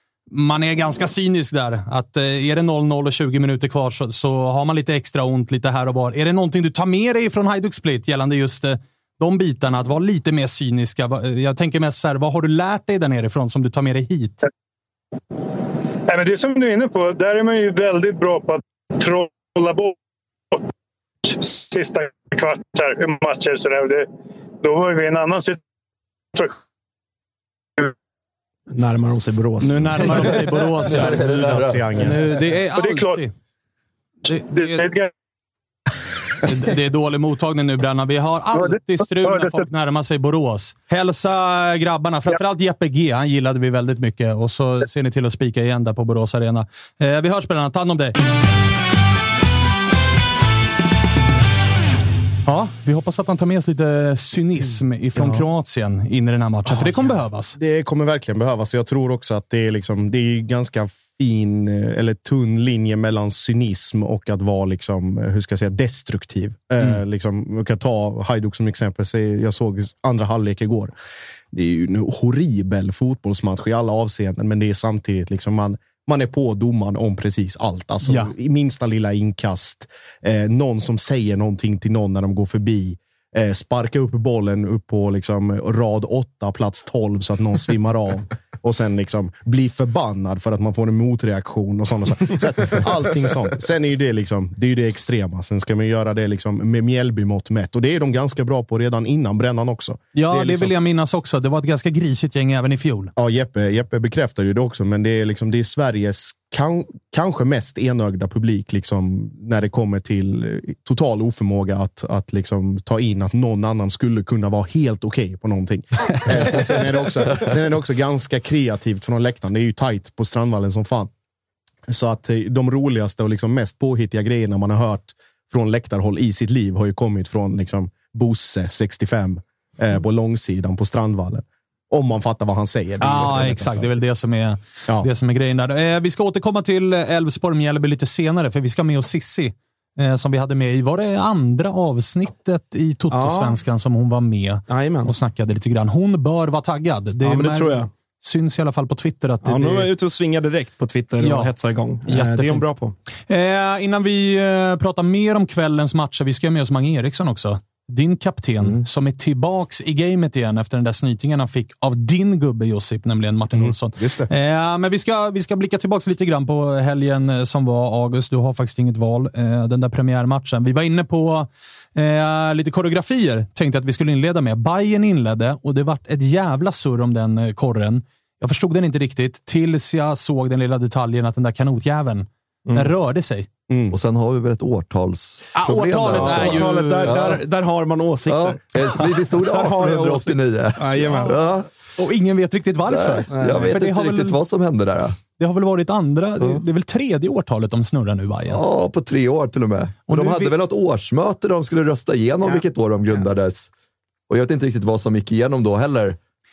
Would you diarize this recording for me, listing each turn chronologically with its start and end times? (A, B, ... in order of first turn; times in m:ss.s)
0:00.3-0:14.4 A
0:16.1-0:19.9 B
0:21.2-0:24.1 B
0:24.6-0:25.6 B
0:28.7-0:30.3 C
0:29.6-0:31.4 A
0:30.9-0:31.8 D
0:30.9-0:32.2 E
0:32.0-0:33.3 A
0:32.7-0:33.2 B
0:34.2-0:34.8 A
0:34.5-0:35.1 B
0:36.4-0:48.1 A
0:52.4-0:57.6 A
0:55.2-0:55.4 E
0:56.6-1:10.9 E
1:11.5-1:40.7 E
1:18.0-1:18.3 A
1:40.1-1:43.1 A
1:43.2-2:01.1 E
2:01.9-2:13.9 E
2:13.0-2:29.9 A
2:23.1-2:23.6 C
2:24.7-2:25.1 C
2:27.2-2:27.9 C
2:29.4-2:32.9 C
2:31.2-2:31.5 A
2:32.1-2:32.7 A
2:33.3-3:03.5 A
2:43.6-2:44.3 E
3:02.7-3:02.9 C
3:03.7-3:04.0 E
3:03.9-3:07.4 D
3:05.6-3:07.4 A
3:05.9-3:11.4 C
3:08.3-3:11.7 D
3:12.0-3:14.4 A
3:12.9-3:15.2 D
3:13.3-3:13.8 C
3:15.4-3:18.6 A
3:18.5-3:23.7 D
3:20.1-3:20.5 A
3:24.3-3:26.2 D